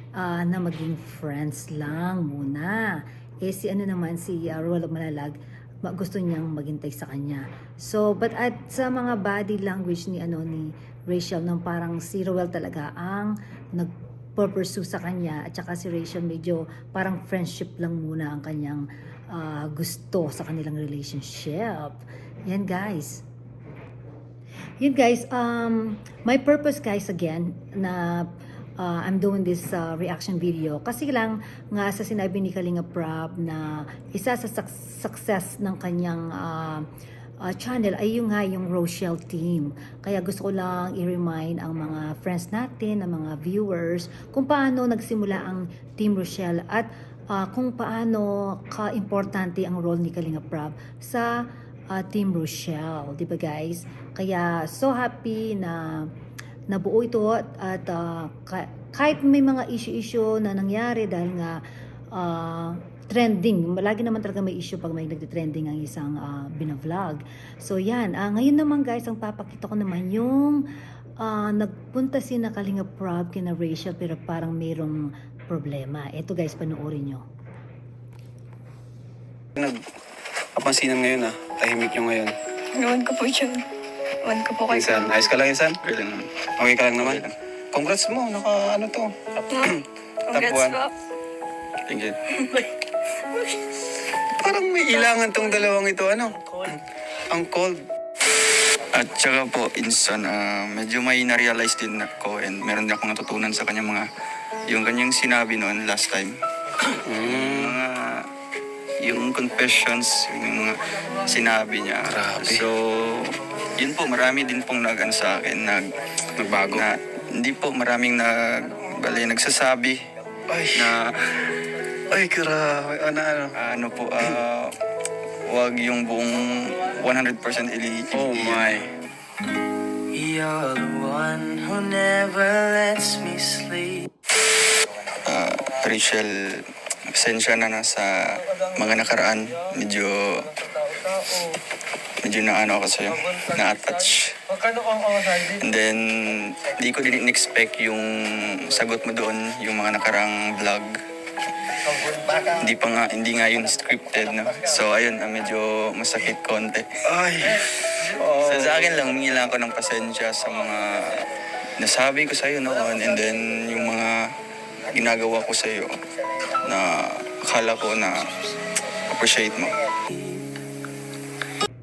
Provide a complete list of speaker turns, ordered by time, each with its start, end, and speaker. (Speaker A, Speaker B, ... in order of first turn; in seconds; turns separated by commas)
Speaker A: 0.1-23.2, Speaker A: 24.8-36.9, Speaker A: 37.4-56.1, Speaker A: 56.7-61.6, Speaker A: 62.1-70.7, Speaker A: 71.2-77.2, Speaker B: 80.6-82.3, Speaker C: 82.8-83.6, Speaker C: 84.2-85.3, Speaker B: 84.7-85.8, Speaker D: 85.8-86.3, Speaker B: 86.6-89.8, Speaker D: 87.0-87.3, Speaker C: 89.6-90.9, Speaker B: 90.3-90.8, Speaker D: 91.9-92.2, Speaker B: 94.4-96.4, Speaker B: 97.3-97.7, Speaker D: 98.9-104.1, Speaker D: 104.7-106.4, Speaker B: 107.0-107.8, Speaker D: 107.2-108.3, Speaker D: 109.0-115.9, Speaker B: 112.1-112.7, Speaker B: 116.4-116.9, Speaker D: 116.7-120.0, Speaker B: 120.5-121.0, Speaker D: 120.7-121.1, Speaker B: 122.1-123.5, Speaker D: 123.5-124.7, Speaker D: 125.5-128.8, Speaker B: 128.1-128.9, Speaker E: 130.1-134.1, Speaker D: 135.2-140.5, Speaker D: 142.2-144.3, Speaker D: 145.2-151.0, Speaker D: 152.3-157.1, Speaker B: 157.1-157.6, Speaker D: 158.1-161.2, Speaker B: 158.2-158.8, Speaker D: 161.8-164.2, Speaker D: 164.9-166.0, Speaker D: 166.6-168.4, Speaker D: 169.1-169.8